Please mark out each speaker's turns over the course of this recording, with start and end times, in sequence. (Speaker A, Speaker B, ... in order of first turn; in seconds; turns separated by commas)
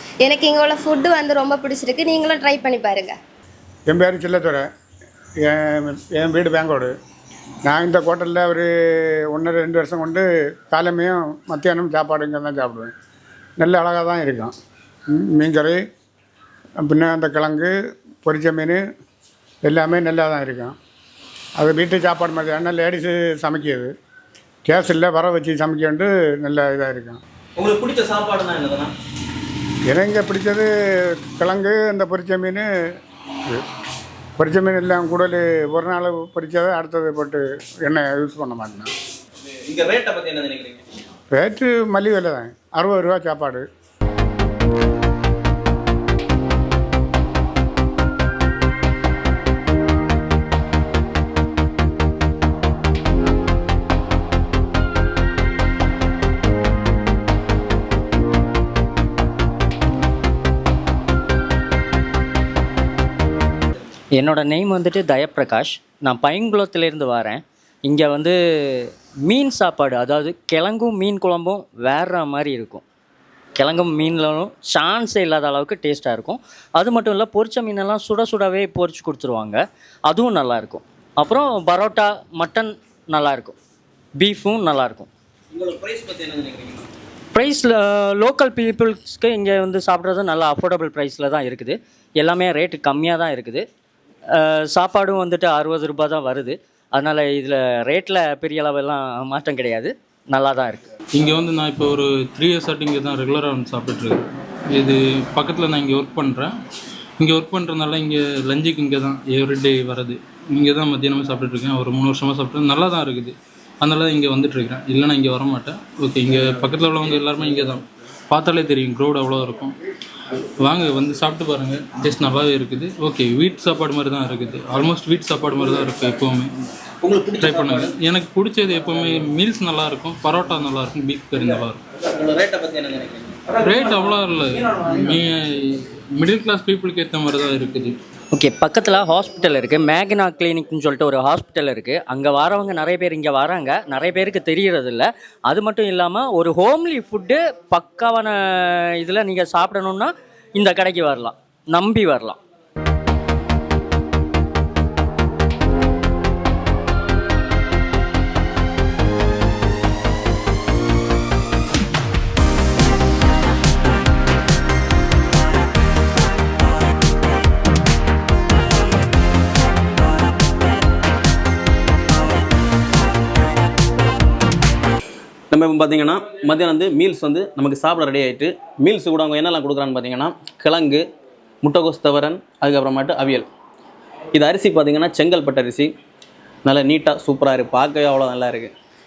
Speaker A: 0.2-3.2, Speaker B: 3.9-4.7, Speaker B: 5.4-6.9, Speaker B: 7.7-8.7, Speaker B: 9.3-12.9, Speaker B: 13.6-14.5, Speaker B: 15.1-15.8, Speaker B: 16.8-18.8, Speaker B: 19.6-20.8, Speaker B: 21.6-23.9, Speaker B: 24.6-27.2, Speaker C: 27.6-28.9, Speaker B: 29.9-30.7, Speaker B: 31.3-32.6, Speaker B: 34.4-38.9, Speaker C: 39.6-40.8, Speaker B: 41.3-43.6, Speaker D: 64.2-72.8, Speaker D: 73.6-83.6, Speaker D: 84.2-85.1, Speaker C: 85.5-86.9, Speaker D: 87.3-93.6, Speaker D: 94.3-100.8, Speaker E: 101.1-106.5, Speaker E: 107.2-119.8, Speaker E: 120.6-126.6, Speaker C: 127.0-127.9, Speaker E: 127.4-131.8, Speaker C: 132.1-133.4, Speaker E: 133.6-138.0, Speaker D: 138.3-152.4, Speaker C: 175.5-181.0, Speaker C: 181.6-183.4, Speaker C: 184.3-185.9, Speaker C: 186.6-188.7